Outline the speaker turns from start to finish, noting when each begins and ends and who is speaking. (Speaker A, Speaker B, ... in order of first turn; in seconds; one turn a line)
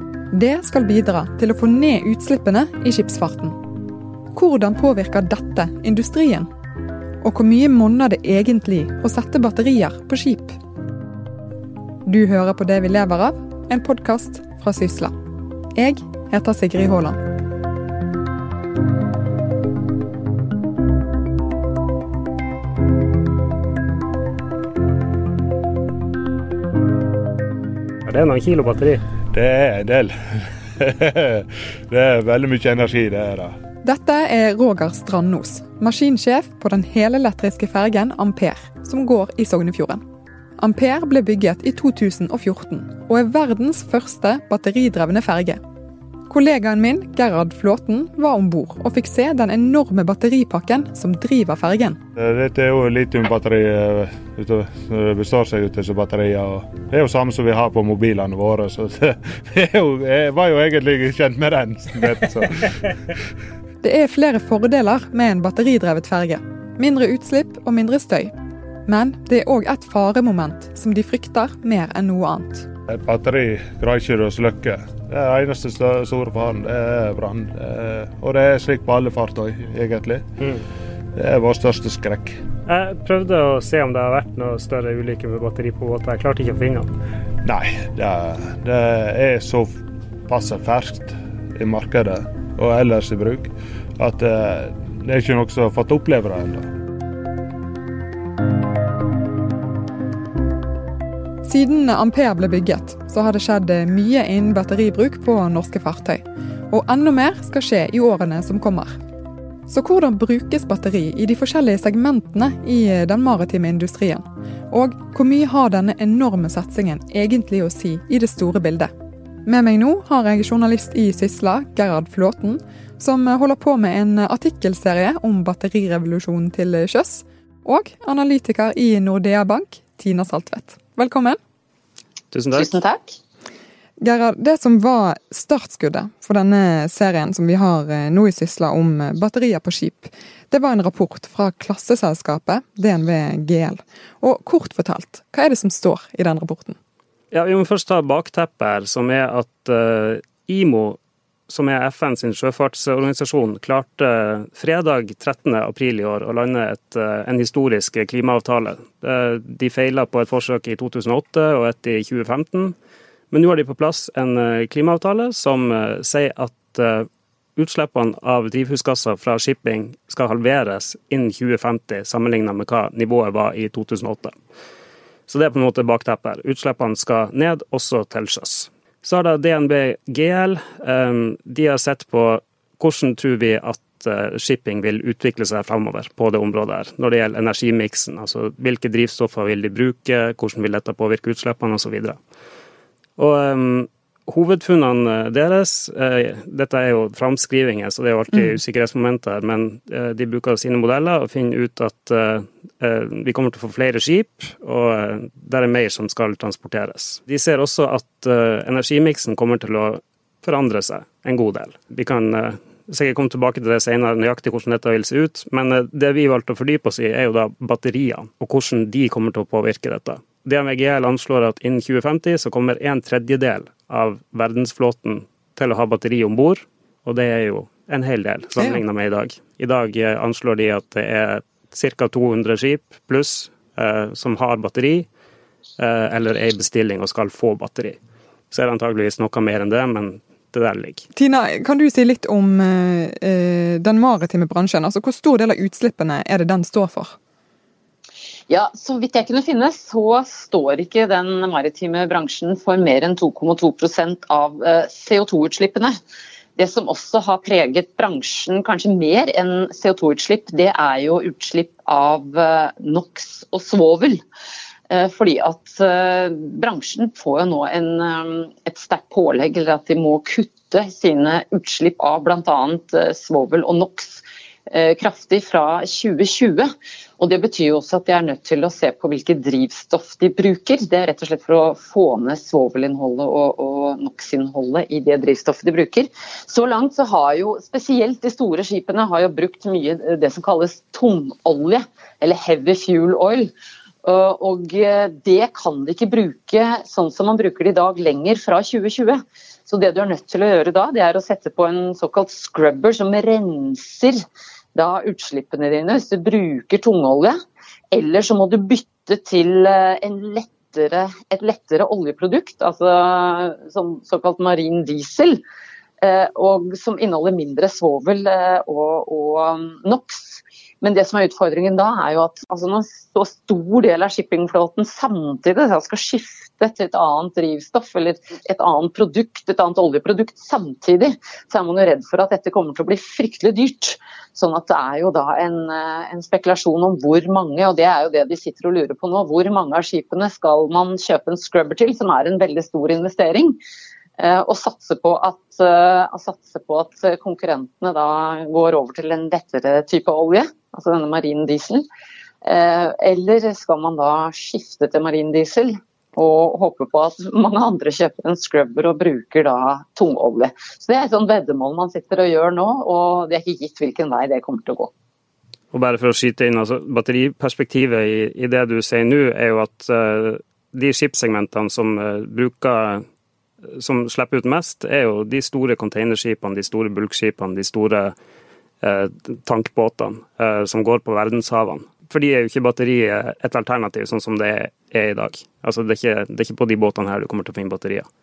Speaker A: 0.3-3.6
Speaker A: 4.3-6.5
Speaker A: 7.2-10.6
Speaker A: 12.1-15.1
Speaker A: 15.8-17.2
Speaker B: 28.1-29.0
Speaker C: 29.3-33.6
Speaker A: 33.8-40.0
Speaker A: 40.6-45.6
Speaker A: 46.3-52.0
Speaker C: 52.2-62.8
Speaker A: 63.8-68.3
Speaker A: 68.9-72.7
Speaker C: 72.9-80.3
Speaker C: 81.1-82.4
Speaker B: 82.7-86.9
Speaker C: 87.4-96.7
Speaker A: 101.4-109.0
Speaker A: 109.7-118.9
Speaker A: 119.5-131.4
Speaker B: 132.3-132.8
Speaker D: 132.5-133.2
Speaker A: 134.0-146.8
Speaker B: 147.3-151.0
Speaker B: 151.5-162.8
Speaker B: 163.3-174.3
Speaker B: 175.3-192.2
Speaker B: 193.2-235.1
Speaker B: 235.8-238.0
Speaker B: 238.5-241.1
Speaker A: 241.2-247.2
Speaker D: 248.5-256.0
Speaker D: 256.6-264.2
Speaker D: 264.9-293.5
Speaker D: 294.0-304.2
Speaker D: 304.8-307.4
Speaker D: 307.9-315.4
Speaker D: 316.0-343.6
Speaker D: 344.2-351.9
Speaker D: 352.4-364.9
Speaker B: 365.7-373.0
Speaker B: 373.7-378.1
Speaker B: 378.8-388.1